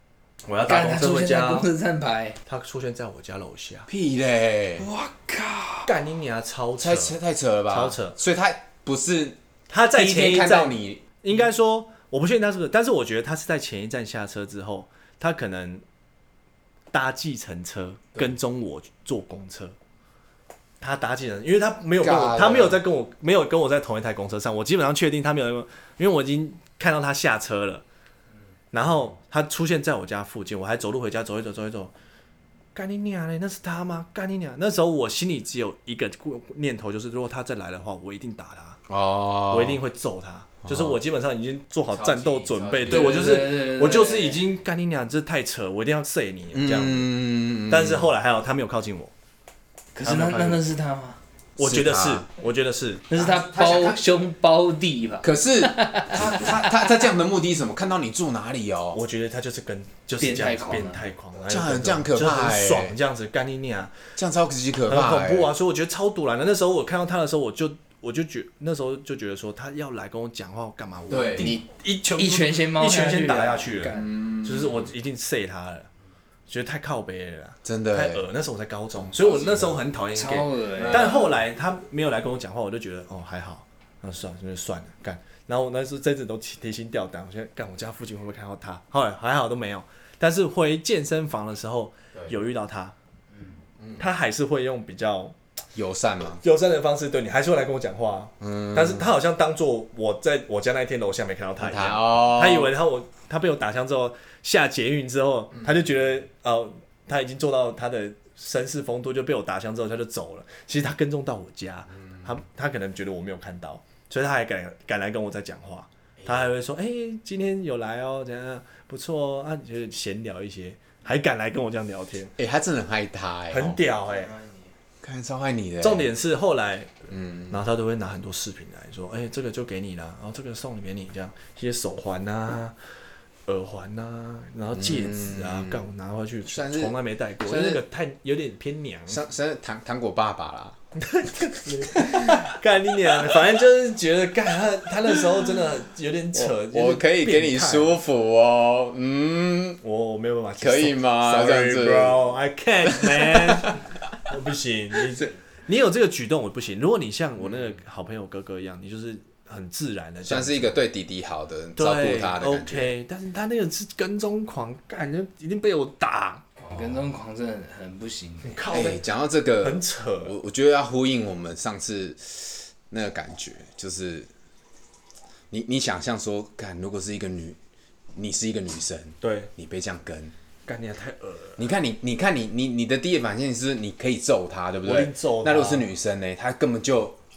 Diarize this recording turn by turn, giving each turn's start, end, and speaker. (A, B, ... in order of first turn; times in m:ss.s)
0:00.4-0:01.7 A
0:00.7-0:02.4 B
0:02.4-0:03.9 A
0:03.9-0:04.9 C
0:04.8-0:05.9 B
0:05.8-0:07.2 A
0:06.8-0:09.4 C
0:07.7-0:08.2 A
0:09.7-0:15.8 A
0:09.9-0:11.0 C
0:16.9-0:19.8 A
0:20.8-0:27.8 A
0:22.0-0:22.8 C
0:28.7-0:31.9 A
0:32.7-0:38.8 A
0:38.9-0:39.8 C
0:39.5-0:47.1 A
0:40.6-0:41.0 C
0:41.9-0:43.5 C
0:42.8-0:44.4 B
0:46.5-0:48.1 C
0:47.6-0:49.1 A
0:49.9-0:51.2 B
0:50.0-0:50.6 A
0:51.6-0:53.4 A
0:51.6-0:52.2 C
0:53.1-0:56.8 B
0:53.4-0:54.0 C
0:55.2-0:59.0 C
0:58.9-1:04.0 A
1:00.2-1:01.0 B
1:01.5-1:02.9 C
1:04.2-1:05.5 C
1:04.9-1:15.9 A
1:11.1-1:11.6 C
1:12.1-1:14.1 B
1:14.0-1:14.9 C
1:16.5-1:32.9 A
1:17.6-1:18.2 C
1:19.1-1:19.8 C
1:20.1-1:21.1 B
1:20.8-1:21.3 C
1:34.0-1:35.3 A
1:35.7-1:36.4 C
1:36.4-2:02.3 A
1:38.4-1:39.0 C
1:41.6-1:42.7 C
2:02.4-2:03.8 C
2:03.5-2:04.3 A
2:05.0-2:06.1 C
2:05.8-2:12.7 A
2:07.1-2:07.5 C
2:13.5-2:19.2 A
2:14.8-2:15.8 C
2:16.5-2:17.8 C
2:19.1-2:20.8 C
2:20.9-2:28.0 A
2:22.0-2:22.4 C
2:26.3-2:29.8 C
2:29.8-2:40.8 A
2:30.6-2:32.2 C
2:32.9-2:33.8 C
2:40.2-2:42.9 C
2:41.8-2:46.4 A
2:46.7-2:48.6 B
2:48.4-2:49.0 A
2:48.7-2:54.3 C
2:49.6-2:50.3 A
2:55.5-2:57.6 C
2:58.2-3:00.3 C
2:59.2-2:59.5 A
3:00.7-3:01.6 A
3:01.6-3:07.2 C
3:04.8-3:05.9 A